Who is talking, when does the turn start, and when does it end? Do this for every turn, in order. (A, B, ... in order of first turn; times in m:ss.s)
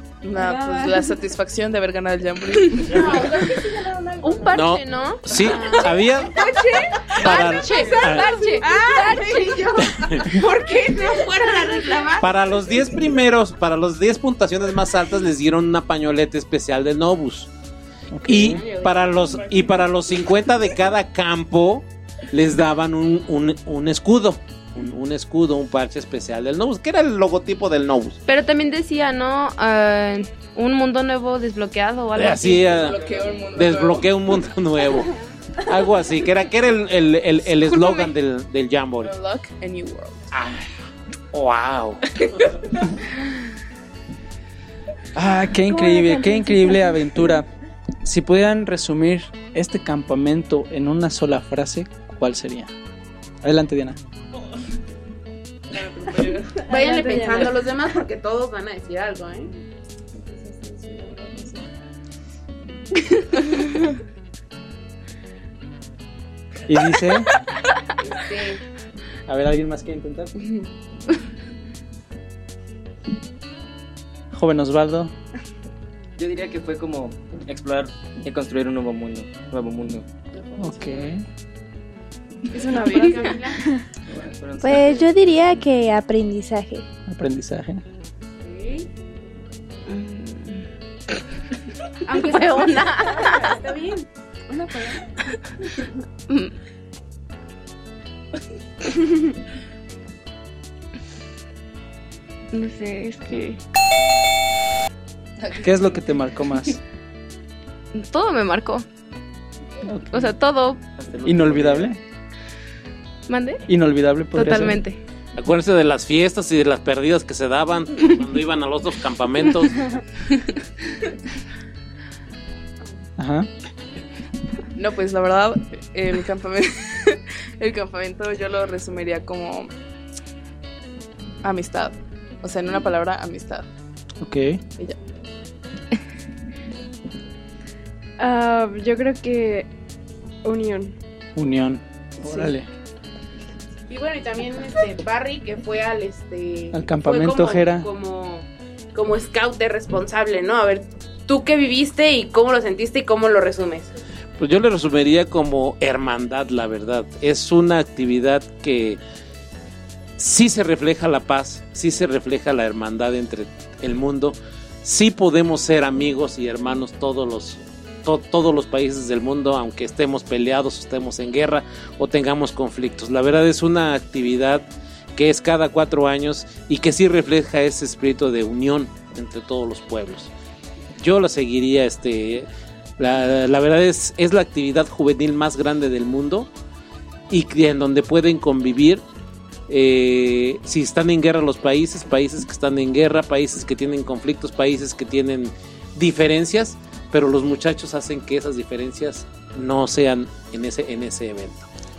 0:00.2-0:03.1 A
0:00.3-0:01.2 B
0:02.8-0:04.7 C
0:04.2-0:09.6 D
0:04.5-0:06.4 E
0:05.4-0:07.8 C
0:07.2-0:08.4 E
0:08.5-0:12.8 C
0:09.9-0:10.2 E
0:12.2-0:17.5 E
0:18.1-0:18.6 F
0:18.3-0:28.2 E
0:18.4-0:19.8 C
0:28.3-0:32.8 D
0:32.2-0:35.1 E
0:32.7-0:34.1 A
0:35.7-0:39.1 E
0:39.0-0:40.3 A
0:40.3-0:40.7 E
0:41.3-0:42.0 E
0:42.2-0:42.7 A
0:45.2-0:47.5 F
0:45.6-0:47.3 B
0:48.0-0:52.7 F
0:53.4-0:54.0 F
0:55.8-0:56.7 A
0:56.6-0:57.5 B
0:56.7-0:59.5 C
1:06.7-1:07.3 F
1:08.0-1:08.6 C
1:09.3-1:10.4 F
1:14.3-1:15.1 F
1:16.2-1:20.1 G
1:20.6-1:21.2 F
1:22.5-1:23.8 B
1:22.7-1:23.6 C
1:24.1-1:25.1 G
1:24.6-1:26.8 H
1:27.1-1:27.8 F
1:28.4-1:28.9 C
1:29.9-1:30.6 D
1:32.1-1:34.1 C
1:32.1-1:33.4 D
1:34.5-1:35.1 B
1:42.5-1:43.6 D
1:45.4-1:46.0 A
1:45.6-1:46.8 F
1:47.9-1:48.8 D
1:49.8-1:50.3 F
1:50.1-1:50.8 D
1:51.0-1:51.9 G
1:51.2-1:52.0 F
1:53.3-1:53.6 D
1:53.7-1:54.8 F
1:54.3-1:55.0 D
1:55.4-1:59.9 E
2:03.2-2:03.5 F
2:04.8-2:09.7 A
2:11.4-2:13.7 A
2:14.2-2:14.6 F
2:18.2-2:19.7 B
2:20.4-2:21.0 B
2:21.4-2:22.7 F
2:22.2-2:22.5 B
2:23.9-2:33.9 C
2:26.7-2:27.9 F
2:34.4-2:39.0 E
2:40.2-2:54.6 E
2:55.2-3:00.3 E
3:01.0-3:02.5 E
3:03.0-3:06.5 E
3:07.3-3:09.0 E
3:09.7-3:21.7 E